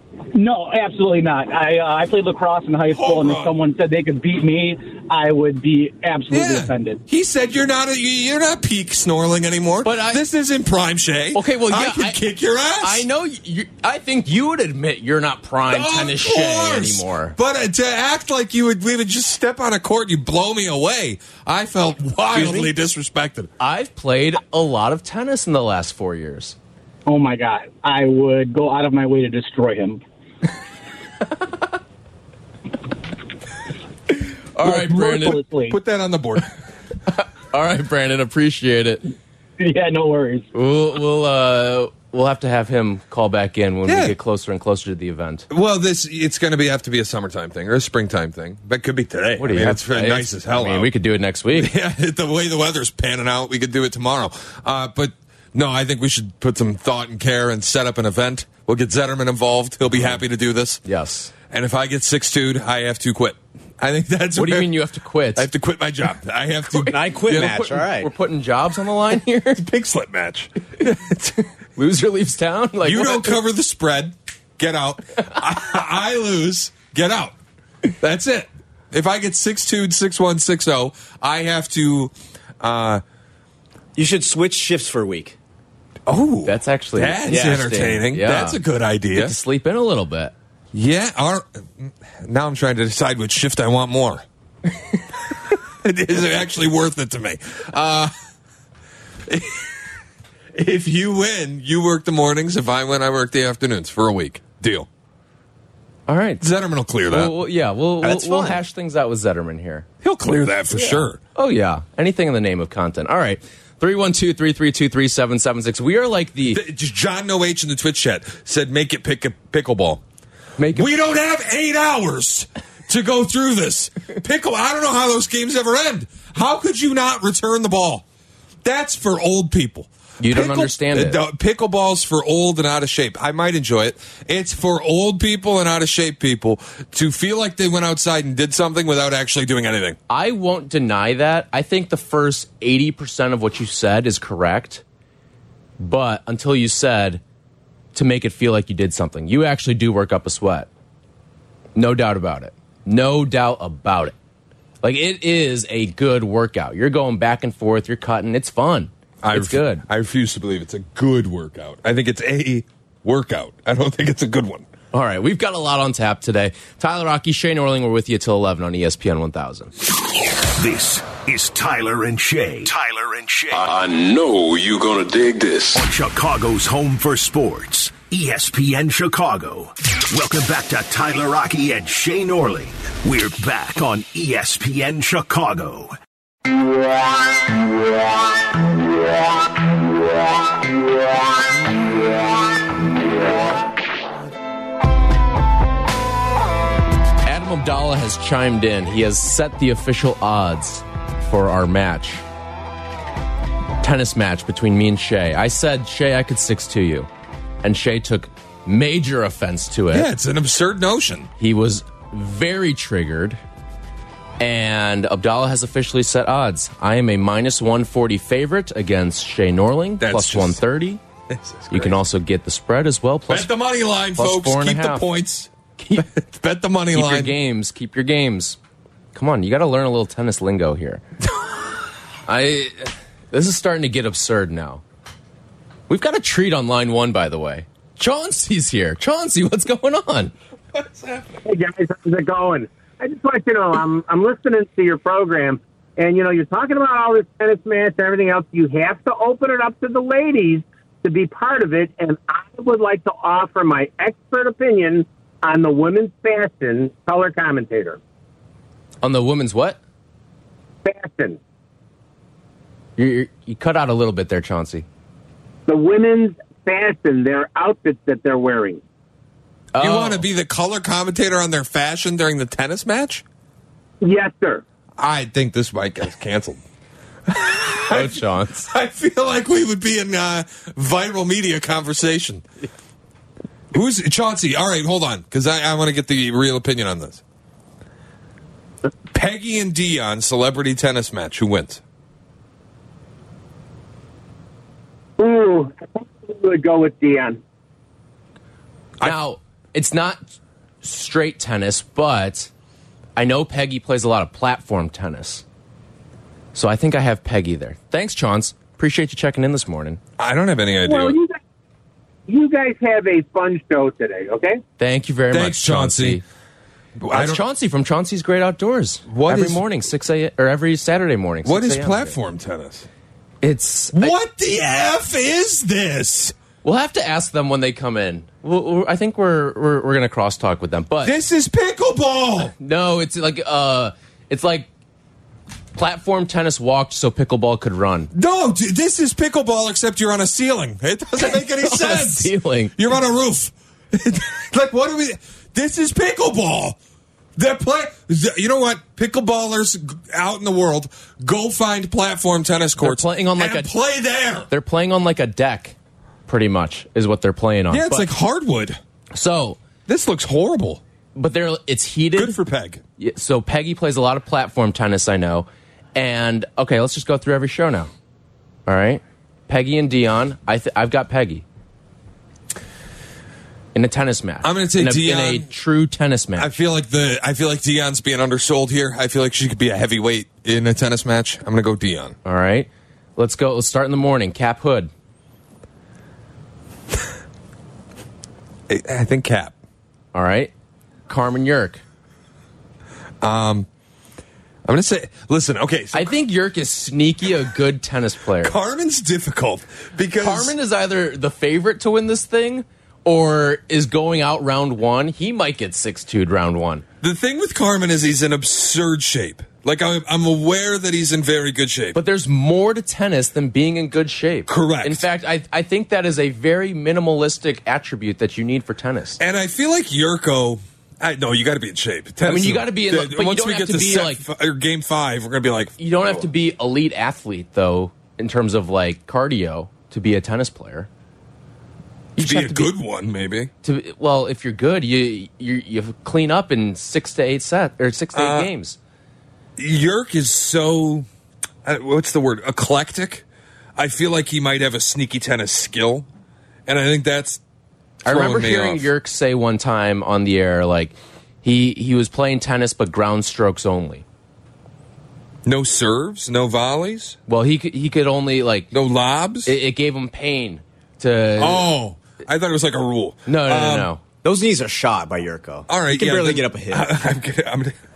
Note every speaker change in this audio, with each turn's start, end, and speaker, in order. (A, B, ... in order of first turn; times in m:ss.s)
0:00.3-0:07.0 A
0:02.9-0:03.5 B
0:06.3-0:13.1 B
0:09.8-0:10.2 C
0:11.3-0:12.2 C
0:12.8-0:17.4 C
0:15.7-0:23.5 B
0:22.3-0:22.7 C
0:23.6-0:26.6 C
0:27.0-0:30.0 A
0:34.5-0:35.4 C
0:34.6-0:35.8 A
0:34.7-0:36.5 B
0:37.1-0:39.0 C
0:39.6-0:40.5 A
0:40.5-0:45.4 C
0:43.9-0:44.2 B
0:45.5-0:50.9 B
0:49.4-0:51.7 C
0:51.5-1:00.8 B
1:00.8-1:01.3 C
1:01.5-1:04.8 B
1:04.4-1:05.5 C
1:05.4-1:07.6 B
1:06.7-1:09.6 C
1:06.9-1:08.1 D
1:09.6-1:11.3 B
1:11.8-1:13.4 C
1:12.8-1:17.4 B
1:18.0-1:23.0 B
1:24.0-1:25.4 D
1:26.1-1:29.4 B
1:26.4-1:28.6 C
1:27.3-1:27.9 D
1:29.1-1:30.3 C
1:30.7-1:34.2 B
1:35.8-1:38.1 B
1:39.3-1:39.8 B
1:40.5-1:44.9 B
1:46.1-1:46.4 C
1:46.4-1:47.3 B
1:47.1-1:49.9 C
1:48.0-1:48.6 D
1:50.0-1:51.2 B
1:50.8-1:56.6 C
1:56.5-2:00.0 B
2:00.6-2:00.9 C
2:00.7-2:08.0 B
2:08.6-2:20.0 B
2:10.2-2:11.2 C
2:20.1-2:24.8 C
2:25.8-2:27.2 C
2:27.9-2:30.7 C
2:31.8-2:34.1 C
2:34.8-2:39.8 C
2:39.2-2:44.7 B
2:44.9-2:49.7 C
2:50.5-2:53.7 E
2:53.5-2:55.8 F
2:55.8-3:05.9 E
3:17.2-3:22.2 C
3:23.8-3:27.1 C
3:27.6-3:30.1 C
3:29.9-3:31.3 B
3:31.4-3:33.4 C
3:34.4-3:41.0 C
3:40.0-3:40.6 B
3:41.3-3:42.0 B
3:41.7-3:43.5 C
3:43.3-3:47.4 B
3:44.1-3:45.0 C
3:45.8-3:46.1 C
3:46.9-3:48.6 C
3:49.1-3:51.0 C
3:52.3-3:54.8 C
3:55.9-4:00.3 C
4:00.7-4:01.3 B
4:01.4-4:18.0 G
4:19.0-4:19.8 C
4:20.8-4:21.4 G
4:23.0-4:24.9 C
4:25.7-4:28.8 G
4:29.7-4:30.2 C
4:29.8-4:33.2 B
4:34.0-4:34.6 G
4:35.0-4:36.6 B
4:37.3-4:42.4 B
4:37.9-4:38.7 C
4:43.7-4:47.2 B
4:49.1-4:51.8 B
4:55.2-4:57.4 G
4:59.0-5:00.2 C
5:00.8-5:02.5 C
5:03.2-5:05.4 C
5:06.5-5:10.0 C
5:10.2-5:11.2 B
5:10.8-5:11.4 G
5:12.3-5:14.6 G
5:14.8-5:16.2 C
5:15.3-5:16.2 B
5:17.0-5:17.4 B
5:17.1-5:22.2 C
5:19.1-5:19.7 B
5:21.4-5:22.9 B
5:23.4-5:24.2 C
5:23.9-5:26.4 B
5:26.6-5:31.1 C
5:31.0-5:32.5 B
5:32.6-5:34.7 C
5:35.7-5:38.1 C
5:38.1-5:46.8 B
5:41.2-5:42.7 C
5:47.4-5:54.5 B
5:52.8-5:53.7 C
5:54.5-5:55.7 C
5:56.3-5:58.1 C
5:57.7-5:58.8 B
5:59.1-5:59.6 C
5:59.9-6:00.8 B
6:01.1-6:02.4 C
6:02.1-6:02.8 B
6:03.0-6:07.9 C
6:08.6-6:11.4 C
6:13.7-6:16.5 C
6:14.4-6:15.5 B
6:16.4-6:22.2 B
6:22.2-6:24.9 C
6:28.7-6:29.5 B
6:30.1-6:30.5 C
6:31.1-6:31.8 C
6:33.2-6:33.7 B
6:34.6-6:36.2 B
6:35.9-6:38.6 C
6:38.4-6:40.6 B
6:40.2-6:46.8 C
6:47.0-6:52.0 B
6:51.9-6:59.2 C
6:54.5-6:55.0 B
6:59.2-7:06.2 B
7:02.2-7:04.2 C
7:05.8-7:10.9 C
7:12.2-7:12.7 C
7:12.2-7:13.5 B
7:13.6-7:18.8 C
7:18.1-7:18.5 B
7:19.6-7:21.1 B
7:21.6-7:23.2 B
7:23.8-7:26.1 B
7:26.6-7:27.4 B
7:28.0-7:34.0 C
7:28.1-7:28.9 B
7:35.4-7:37.2 B
7:37.3-7:38.7 C
7:38.7-7:39.5 B
7:39.4-7:41.7 C
7:41.4-7:43.9 B
7:43.2-7:44.0 C
7:44.2-7:46.9 D
7:45.7-7:47.7 B